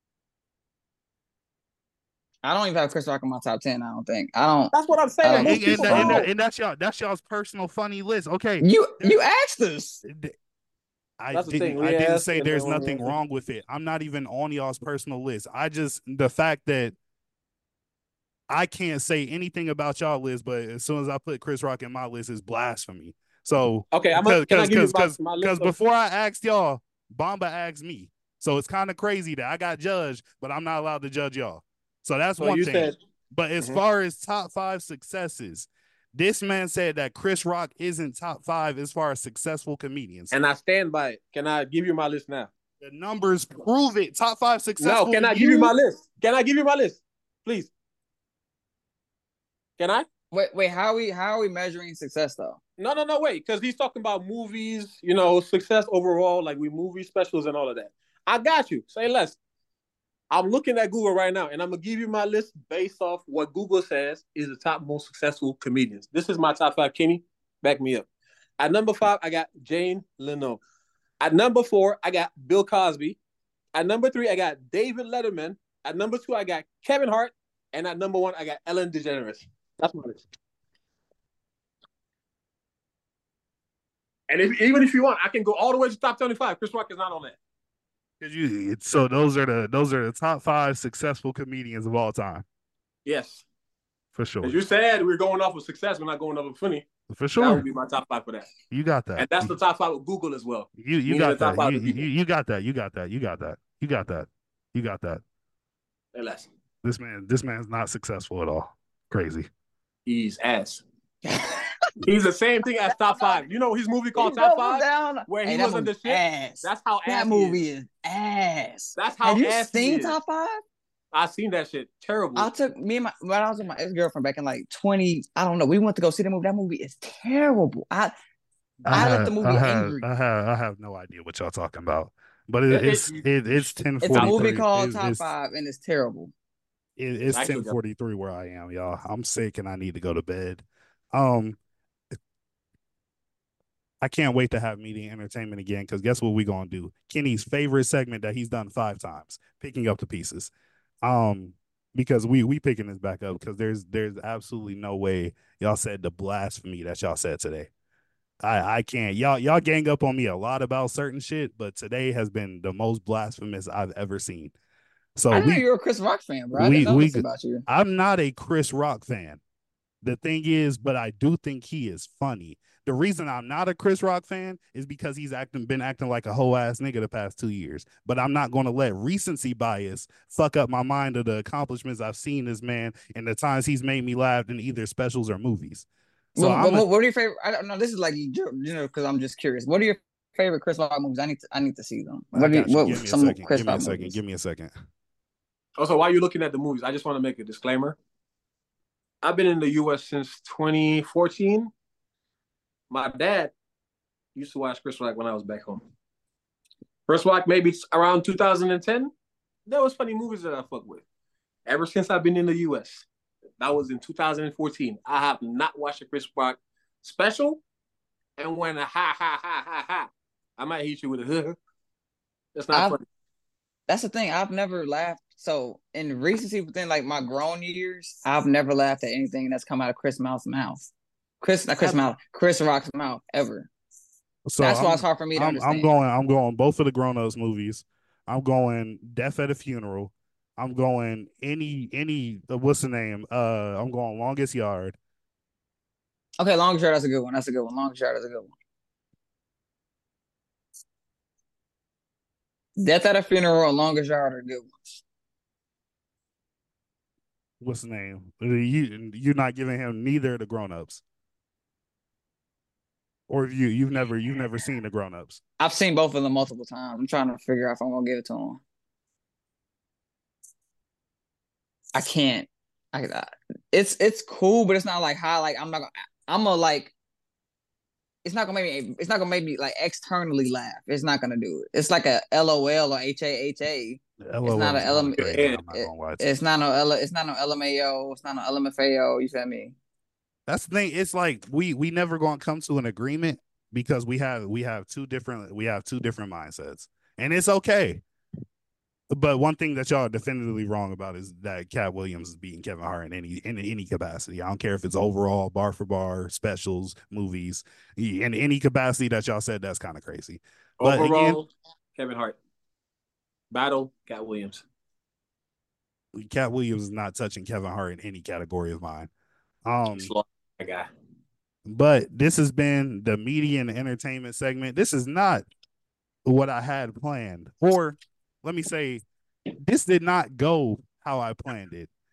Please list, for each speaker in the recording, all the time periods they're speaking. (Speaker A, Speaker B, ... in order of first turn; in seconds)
Speaker A: 2.4-6.3, 8.6-10.0, 50.3-52.6, 111.2-111.8, 113.2-113.4, 114.2-120.6, 122.3-128.1, 128.9-130.0, 134.0-136.3, 165.3-167.6, 186.3-194.2, 222.7-223.0, 223.9-230.8, 231.4-233.7, 234.6-235.9, 246.4-248.5, 252.8-255.0, 265.6-268.6, 271.9-276.9, 278.2-289.8
Speaker B: 4.7-6.3, 11.3-13.1, 23.9-25.7, 32.4-33.0, 40.3-42.5, 44.8-47.7, 49.8-50.1, 52.8-59.4, 60.3-68.1, 68.6-70.6, 71.2-73.2, 73.7-80.2, 84.3-87.4, 93.0-93.4, 94.4-96.9, 97.4-98.5, 99.2-102.0, 106.1-106.5, 110.0-110.8, 112.0-117.6, 119.0-120.2, 121.1-122.5, 128.8-129.1, 132.7-133.4, 134.1-134.4, 137.3-137.7, 195.8-198.0, 199.2-201.7, 202.9-203.5, 204.3-205.8, 207.1-209.1, 209.7-211.0, 211.7-213.1, 213.6-217.6, 218.4-221.6, 222.5-223.0, 285.1-285.6, 310.8-312.4, 313.5-314.6, 319.9-320.9
Speaker C: 5.4-9.2, 10.0-10.3, 11.2-16.9, 18.5-40.3, 42.8-45.7, 88.2-92.4, 94.1-94.6, 97.1-97.6, 98.7-99.5, 100.8-105.2, 106.8-109.5, 128.9-135.3, 137.0-141.6, 144.0-150.5, 151.0-157.7, 158.4-164.5, 165.2-165.6, 166.5-169.4, 170.0-186.8, 192.3-194.7, 234.4-245.0, 257.6-261.0, 263.3-265.4, 284.2-286.3, 290.5-298.0, 299.1-311.4, 316.1-319.1, 319.6-320.1, 321.7-325.4, 326.2-329.0, 329.6-331.9